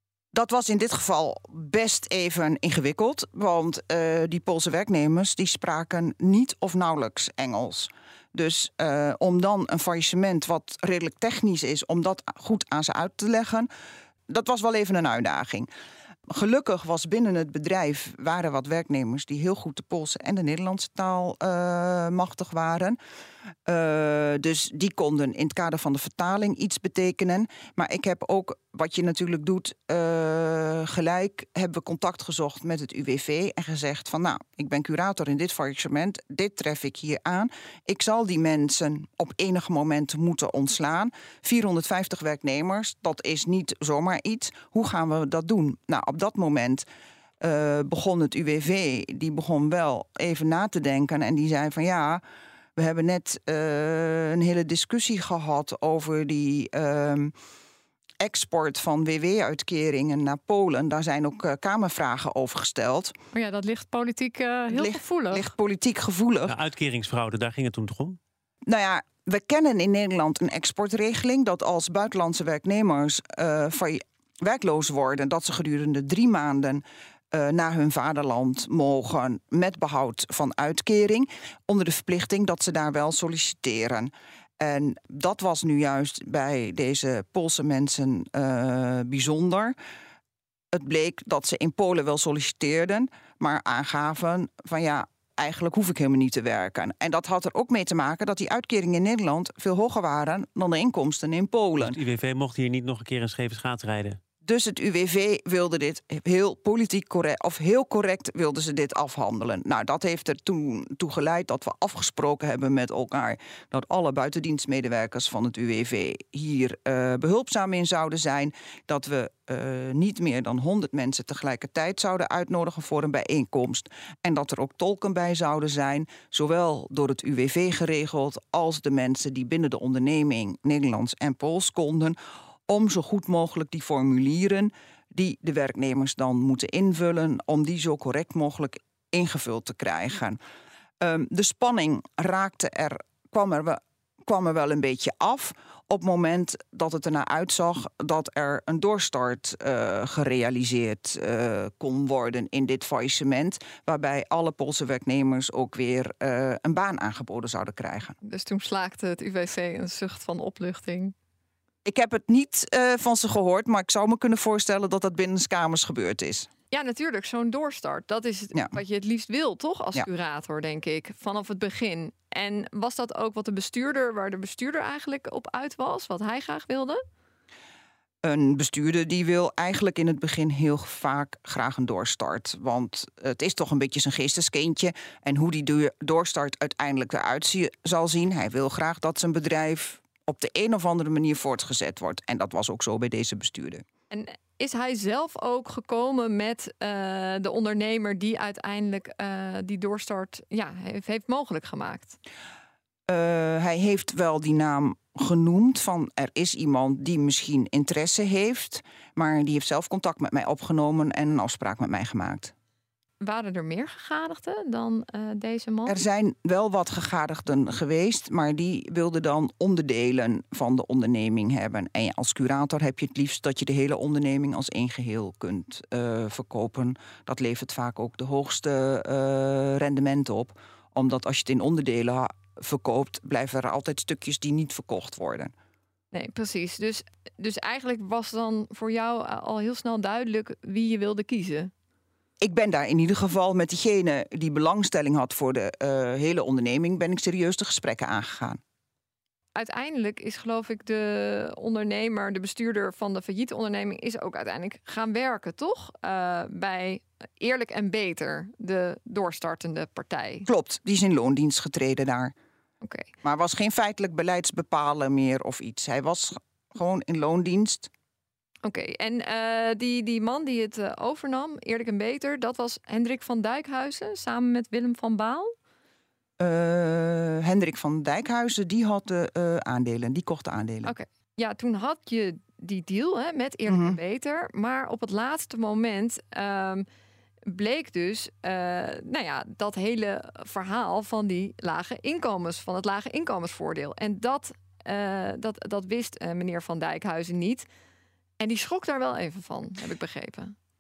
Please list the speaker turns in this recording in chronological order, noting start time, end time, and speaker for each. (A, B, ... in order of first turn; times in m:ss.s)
0:00.3-0:13.7 A
0:14.3-0:15.7 A
0:16.3-0:23.0 A
0:23.7-0:46.9 A
0:47.4-0:52.2 A
0:52.8-0:57.3 A
0:58.2-1:03.2 A
1:03.3-1:05.5 B
1:04.7-1:06.6 A
1:06.5-1:08.2 C
1:08.7-1:29.8 A
1:30.7-1:42.0 A
1:41.8-1:44.2 C
1:44.4-2:12.2 A
2:12.7-2:20.4 A
2:21.0-2:38.2 A
2:38.2-2:41.1 B
2:41.8-2:46.5 A
2:46.7-2:57.0 B
2:58.2-3:13.8 A
3:14.1-3:22.2 B
3:23.1-3:32.5 A
3:33.2-3:36.0 B
3:35.9-3:55.5 A
3:56.1-4:01.7 B
4:02.4-4:08.6 A
4:09.6-4:20.5 B
4:20.5-4:22.3 A
4:22.8-4:23.1 B
4:23.2-4:27.9 A
4:28.6-4:35.5 B
4:36.4-4:40.9 A
4:40.8-4:46.9 B
4:43.7-4:44.0 A
4:47.5-4:57.7 B
4:58.4-5:00.5 B